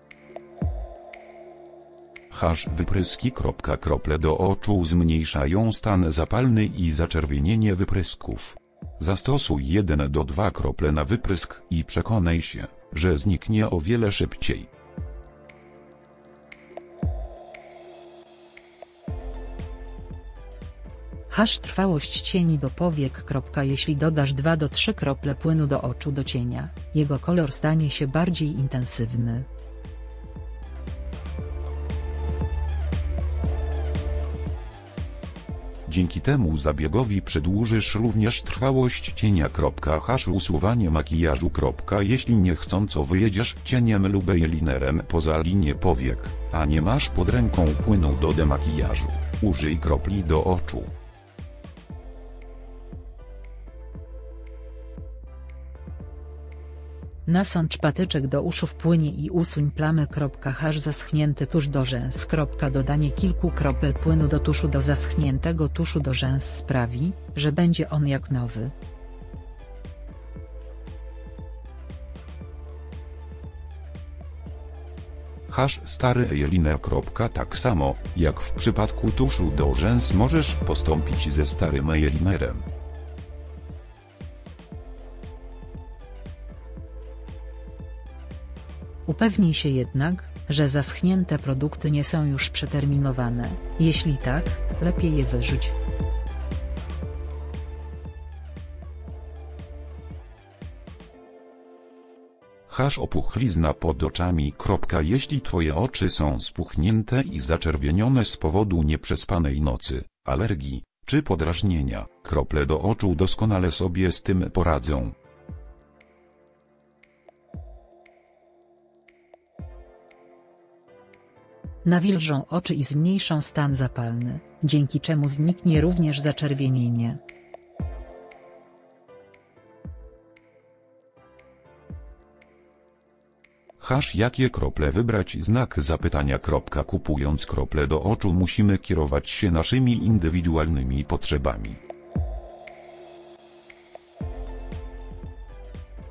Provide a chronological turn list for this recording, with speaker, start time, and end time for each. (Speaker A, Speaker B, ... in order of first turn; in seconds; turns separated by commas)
Speaker A: 2.3-14.7, Speaker B: 21.3-29.5, Speaker A: 35.9-50.9, Speaker B: 57.2-68.7, Speaker A: 75.5-82.7, Speaker B: 89.0-95.8, Speaker A: 102.7-115.2, Speaker B: 121.8-127.2, Speaker A: 133.8-141.8